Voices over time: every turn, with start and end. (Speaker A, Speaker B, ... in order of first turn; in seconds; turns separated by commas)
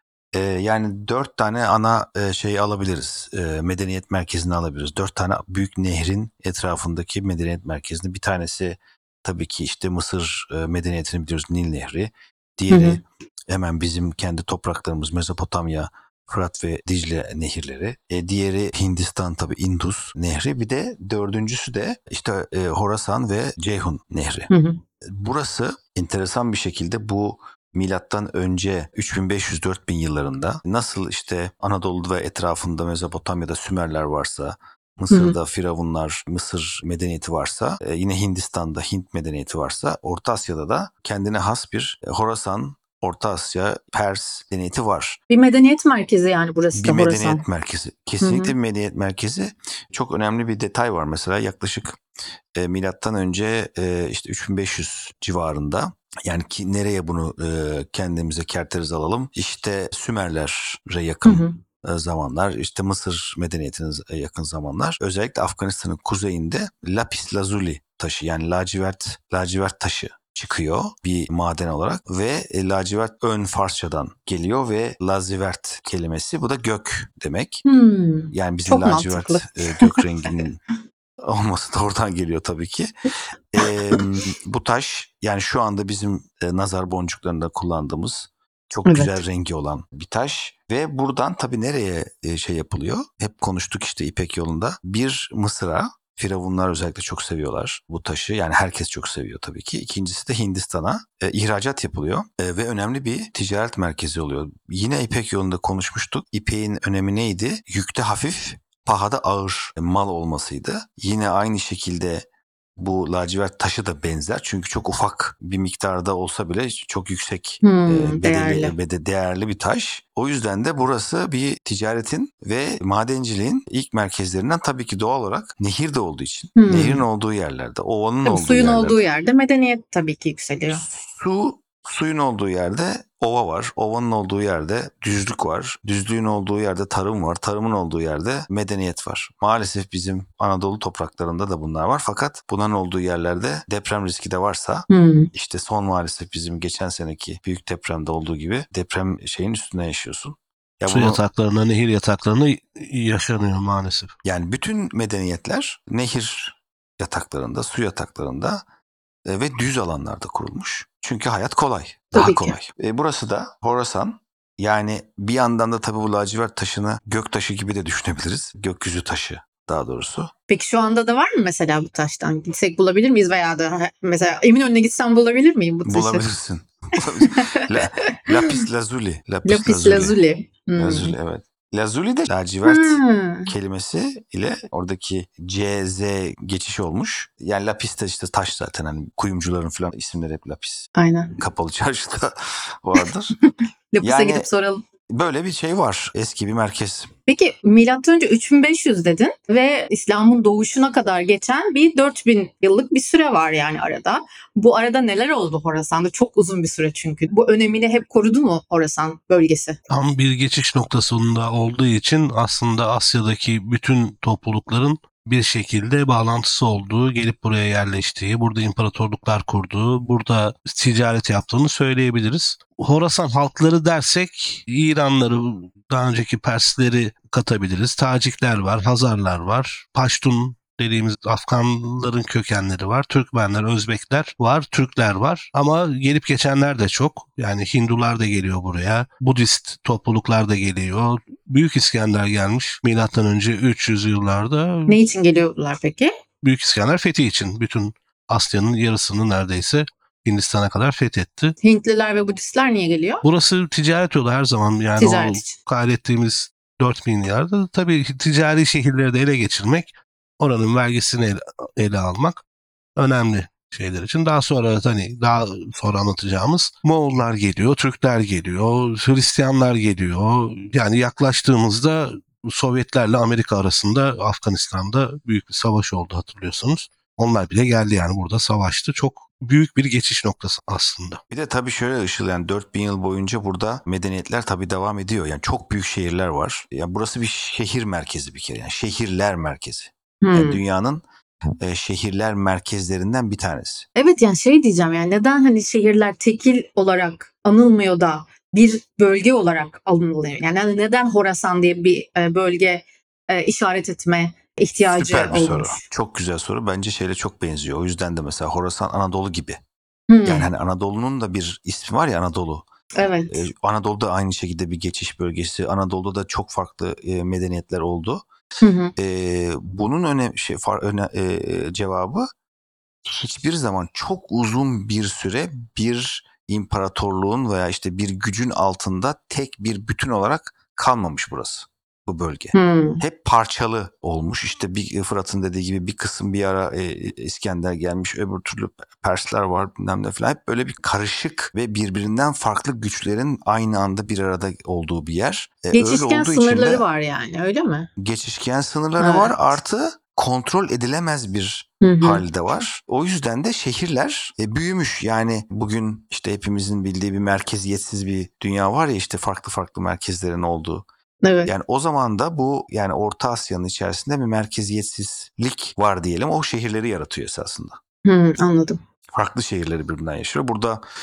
Speaker A: 0.3-24.5, Speaker B: 12.7-13.0, Speaker B: 24.5-24.8, Speaker A: 25.0-45.2, Speaker B: 35.1-35.4, Speaker B: 45.3-47.4, Speaker A: 46.7-52.0, Speaker B: 48.2-48.5, Speaker A: 52.5-77.6, Speaker B: 61.2-61.6, Speaker B: 77.6-80.3, Speaker A: 78.3-80.6, Speaker A: 81.2-82.9, Speaker A: 83.5-112.2, Speaker B: 88.8-89.2, Speaker A: 112.8-129.0, Speaker B: 117.6-118.7, Speaker B: 126.5-127.0, Speaker B: 128.2-130.8, Speaker A: 130.7-151.2, Speaker B: 144.9-145.3, Speaker C: 150.9-154.1, Speaker A: 154.2-158.6, Speaker A: 159.2-170.3, Speaker B: 162.1-162.6, Speaker B: 170.5-176.3, Speaker A: 175.8-180.2, Speaker B: 177.2-178.4, Speaker B: 179.4-181.1, Speaker A: 180.8-190.9, Speaker B: 182.7-183.5, Speaker B: 190.9-191.3, Speaker A: 191.4-193.3, Speaker B: 193.9-194.8, Speaker A: 194.0-194.5, Speaker A: 195.1-197.1, Speaker B: 197.3-209.8, Speaker C: 209.9-245.0, Speaker B: 244.9-246.1, Speaker C: 246.4-251.6, Speaker B: 251.6-253.2, Speaker C: 253.2-259.9, Speaker B: 255.0-255.5, Speaker C: 260.4-262.4, Speaker C: 262.9-281.2, Speaker A: 281.3-291.0, Speaker B: 290.2-290.6, Speaker A: 291.6-293.9, Speaker B: 293.9-305.8, Speaker A: 304.9-309.6, Speaker B: 310.1-310.5, Speaker A: 310.2-312.6, Speaker B: 312.9-313.4, Speaker A: 313.3-318.2, Speaker B: 318.6-318.9, Speaker A: 318.9-322.3, Speaker A: 323.1-346.8, Speaker B: 332.5-333.0, Speaker B: 345.7-347.9, Speaker A: 348.0-360.8, Speaker B: 349.0-349.5, Speaker B: 351.8-352.2, Speaker B: 361.2-361.5, Speaker A: 361.4-367.8, Speaker B: 368.0-368.8, Speaker A: 369.1-370.8